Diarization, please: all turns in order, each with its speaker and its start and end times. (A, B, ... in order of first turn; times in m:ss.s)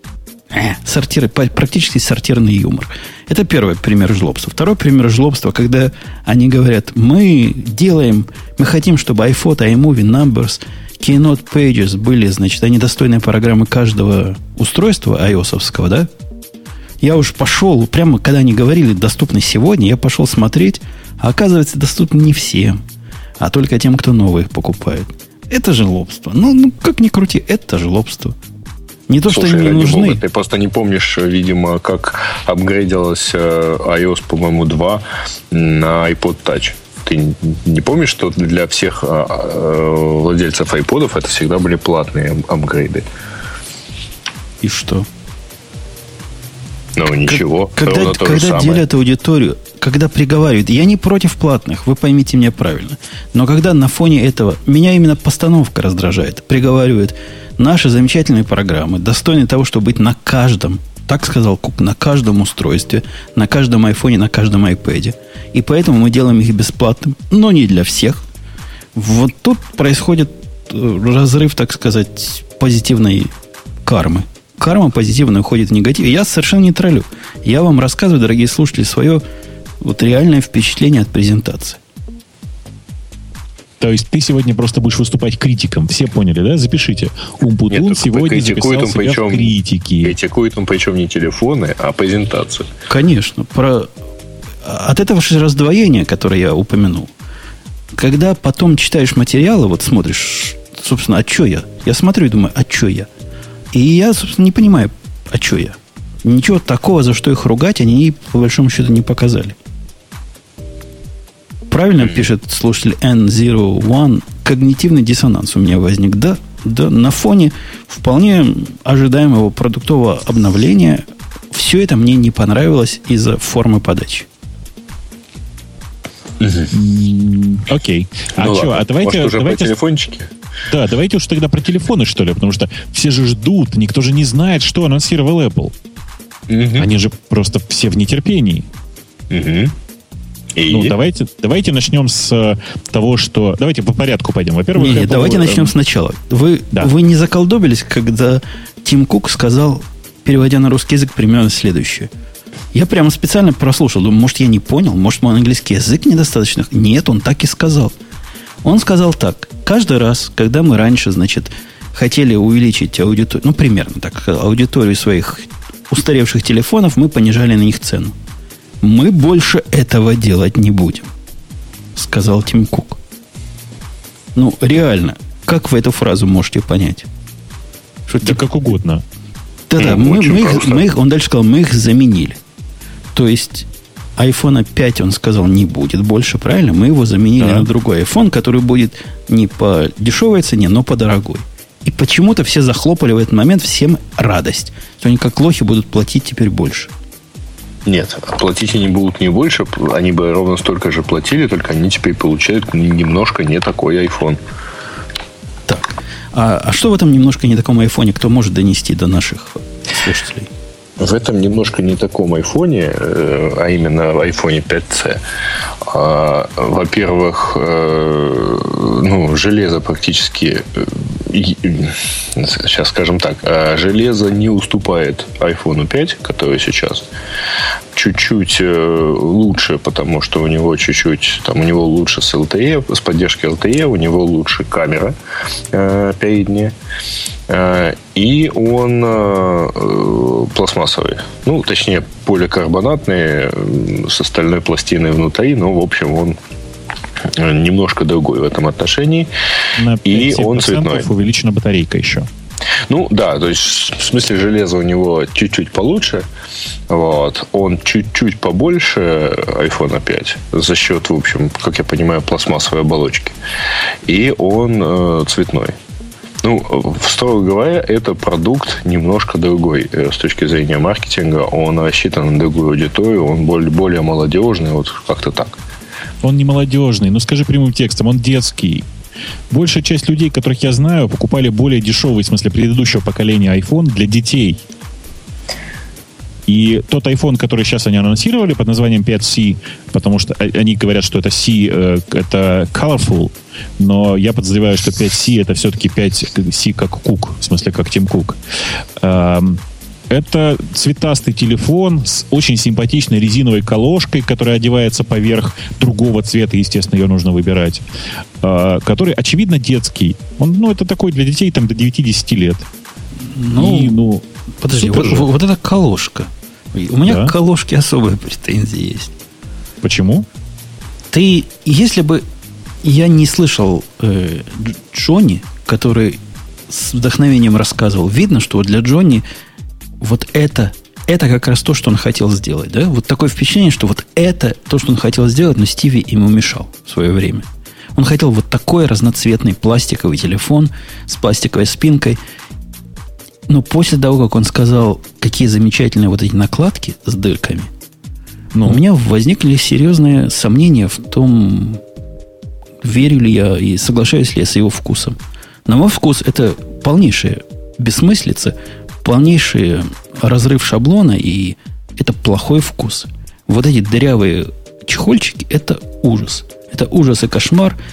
0:00.5-0:16.1 A
0:17.0-0:22.8 A
0:23.4-0:28.4 A
0:29.1-0:30.2 A
0:29.3-0:43.0 B
0:44.6-0:45.1 A
0:47.0-0:48.8 B
0:47.2-1:08.2 A
1:08.9-1:13.3 A
1:13.8-1:19.2 A
1:19.8-1:21.8 A
1:23.8-1:30.1 C
1:27.7-1:32.7 B
1:32.9-1:33.9 A
1:34.6-1:37.1 A
1:37.9-1:43.1 A
1:43.7-1:49.6 A
1:51.7-2:04.3 A
2:06.4-2:06.7 B
2:06.7-2:09.7 C
2:08.4-2:10.3 B
2:10.7-2:15.7 C
2:16.5-2:16.9 B
2:16.8-2:18.7 C
2:19.3-2:19.7 B
2:20.5-2:20.9 B
2:20.7-2:25.7 C
2:24.8-2:32.1 A
2:32.7-2:37.9 A
2:38.6-2:48.1 A
2:48.8-2:51.1 A
2:51.9-2:53.0 A
2:54.3-2:57.1 A
2:58.1-2:58.4 A
2:58.2-2:59.0 C
2:59.7-3:02.4 A
2:59.8-3:00.8 B
3:03.1-3:16.9 A
3:07.4-3:07.7 C
3:17.8-3:24.4 B
3:25.7-3:30.5 A
3:31.0-3:35.2 B
3:35.8-3:47.0 B
3:47.9-3:55.2 B
3:55.7-3:56.7 B
3:57.5-4:06.4 B
4:07.3-4:09.3 B
4:09.8-4:12.3 C
4:10.0-4:11.1 B
4:12.9-4:16.2 B
4:16.9-4:23.4 B
4:24.0-4:25.7 B
4:26.4-4:35.5 B
4:36.2-4:38.8 C
4:39.5-4:44.6 C
4:46.5-4:58.4 C
4:59.0-5:07.8 C
5:08.4-5:12.6 C
5:13.2-5:14.0 A
5:13.6-5:15.3 C
5:14.6-5:19.1 A
5:17.0-5:17.3 C
5:19.8-5:20.2 C
5:21.1-5:22.2 A
5:22.8-5:29.2 A
5:30.0-5:42.2 A
5:43.5-5:47.7 A
5:48.5-5:48.8 C
5:48.6-5:51.8 A
5:52.8-6:07.8 A